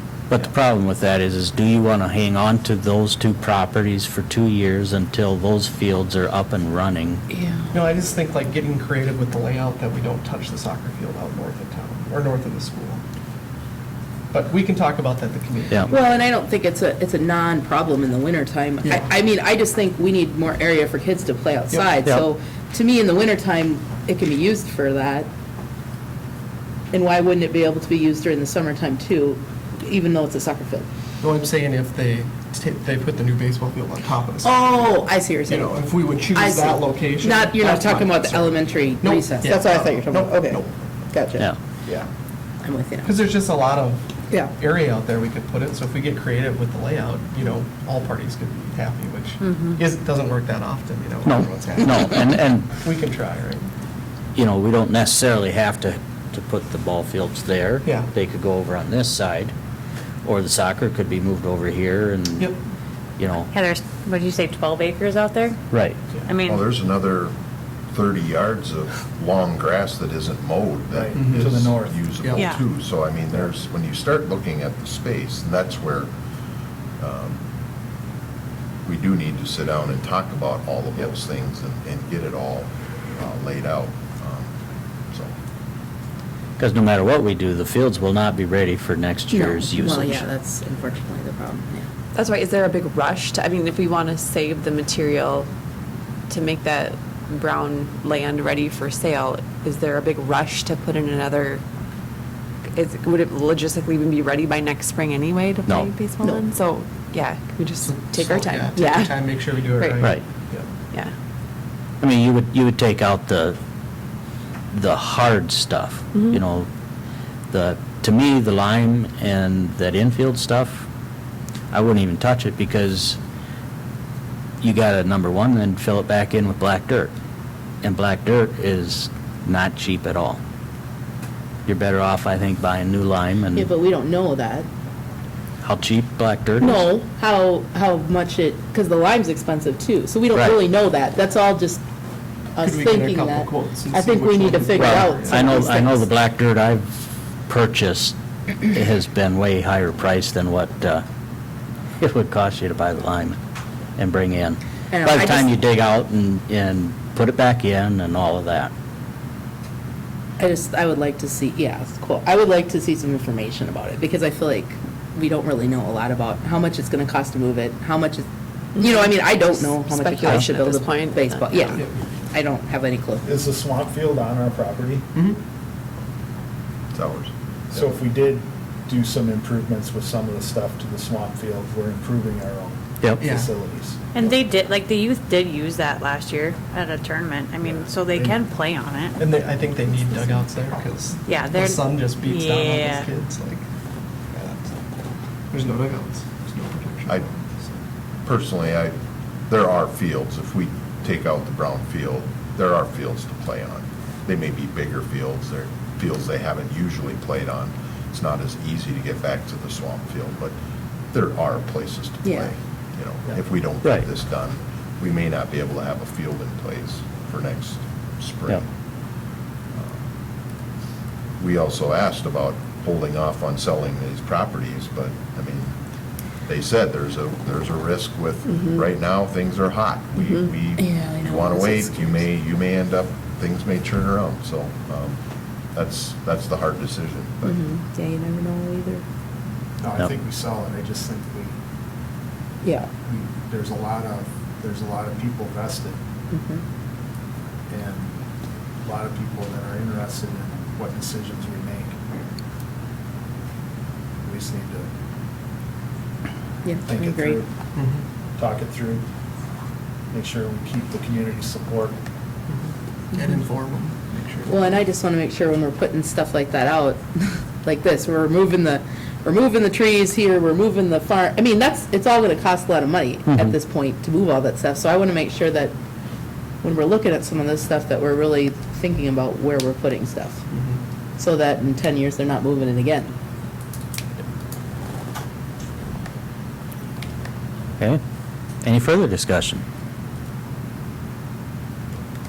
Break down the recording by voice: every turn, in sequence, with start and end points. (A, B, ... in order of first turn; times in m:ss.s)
0:00.3-0:07.2 A
0:07.3-0:07.7 B
0:07.7-0:13.0 C
0:14.3-0:16.1 C
0:15.9-0:25.3 B
0:18.8-0:19.1 C
0:26.9-0:30.9 B
0:31.2-0:40.9 C
0:34.4-0:41.5 B
0:42.6-0:43.2 B
0:43.0-0:53.7 C
0:49.4-0:49.8 D
0:51.2-0:52.7 A
0:54.4-0:59.5 A
0:57.8-0:58.1 C
1:00.2-1:02.5 A
1:03.2-1:03.5 A
1:03.5-1:05.6 D
1:05.7-1:06.0 A
1:06.2-1:06.7 D
1:06.4-1:07.3 E
1:07.9-1:16.1 E
1:10.9-1:12.0 F
1:11.2-1:12.5 C
1:12.3-1:12.6 D
1:17.0-1:17.4 E
1:18.8-1:24.5 E
1:26.6-1:30.2 A
1:29.3-1:31.9 B
1:32.1-1:35.5 G
1:36.3-1:41.6 G
1:42.7-1:49.2 G
1:45.6-1:45.9 A
1:47.8-1:50.7 C
1:49.7-1:50.1 G
1:52.0-1:53.6 A
1:54.7-1:56.7 A
1:56.1-1:56.4 G
1:57.5-2:00.8 A
2:01.7-2:03.2 A
2:04.6-2:07.1 A
2:07.8-2:10.4 A
2:11.6-2:13.7 A
2:13.5-2:14.7 B
2:15.6-2:16.8 A
2:16.6-2:21.8 B
2:20.3-2:20.6 A
2:22.5-2:26.1 B
2:22.6-2:25.8 C
2:24.7-2:26.9 A
2:27.5-2:31.0 A
2:32.0-2:33.4 A
2:34.0-2:38.7 A
2:34.9-2:35.5 B
2:40.4-2:53.4 B
2:48.8-2:51.8 G
2:53.2-2:55.0 F
2:56.9-2:57.3 E
2:57.7-3:04.0 F
3:03.0-3:03.3 A
3:03.2-3:03.5 C
3:04.1-3:09.3 D
3:09.2-3:13.6 C
3:11.2-3:13.1 D
3:14.3-3:14.8 C
3:15.5-3:17.8 C
3:18.2-3:18.9 E
3:19.5-3:30.5 E
3:31.1-3:38.6 E
3:32.2-3:32.5 B
3:33.8-3:34.1 A
3:41.4-3:45.7 E
3:46.5-3:55.2 E
3:48.6-3:48.8 G
3:50.2-3:50.5 G
3:50.8-3:52.2 B
3:55.7-3:57.6 E
3:57.4-3:59.0 B
3:59.8-4:01.5 F
4:02.6-4:02.9 B
4:03.0-4:06.0 F
4:06.3-4:06.6 B
4:07.7-4:08.2 F
4:08.8-4:12.0 F
4:14.2-4:14.9 F
4:16.6-4:17.4 B
4:16.8-4:17.5 F
4:17.8-4:18.0 C
4:18.4-4:19.0 F
4:20.1-4:22.0 F
4:22.5-4:24.8 C
4:24.5-4:35.7 B
4:36.6-4:40.4 B
4:40.5-4:40.8 C
4:41.2-4:43.1 B
4:48.6-4:49.6 A